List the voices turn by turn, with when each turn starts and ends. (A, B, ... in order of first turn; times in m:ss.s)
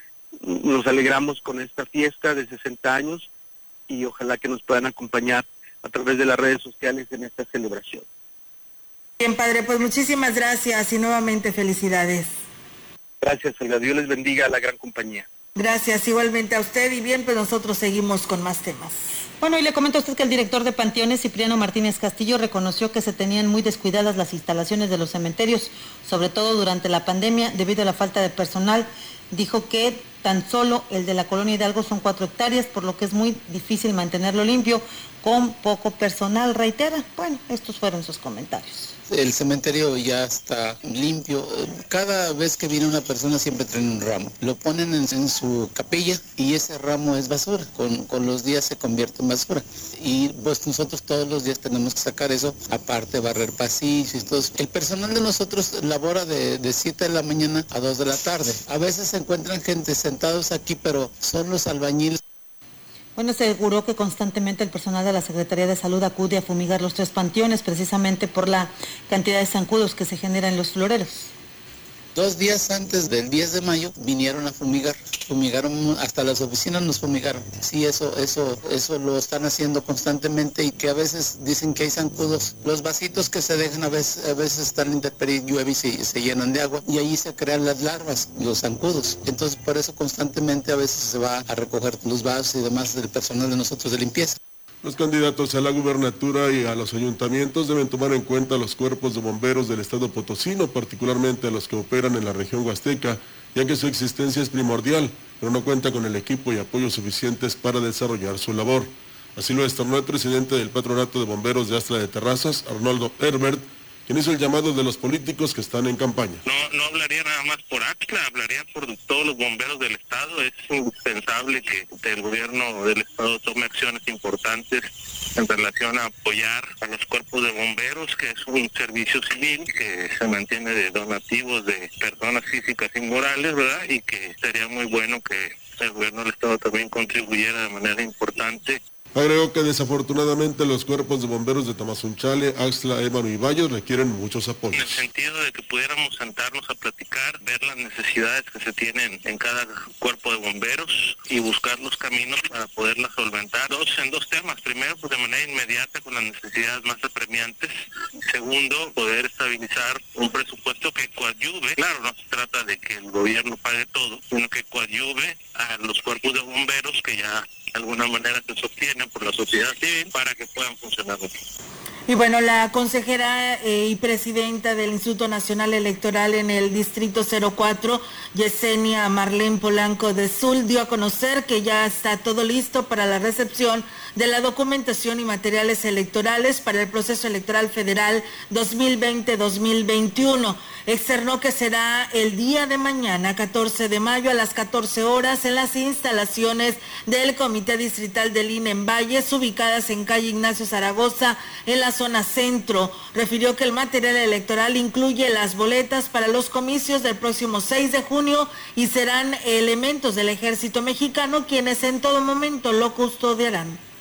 0:00.4-0:03.3 A
0:03.9-0:08.0 A
0:09.2-0:12.4 B
0:13.2-0:15.3 A
0:15.6-0:19.0 B
0:19.4-0:38.9 C
0:39.1-1:02.2 D
1:03.2-1:11.3 C
1:12.1-1:34.4 D
1:34.8-1:56.4 E
1:56.4-2:18.8 F
2:19.1-2:25.0 E
2:24.7-2:37.7 F
2:38.3-2:51.3 F
2:52.1-3:33.8 B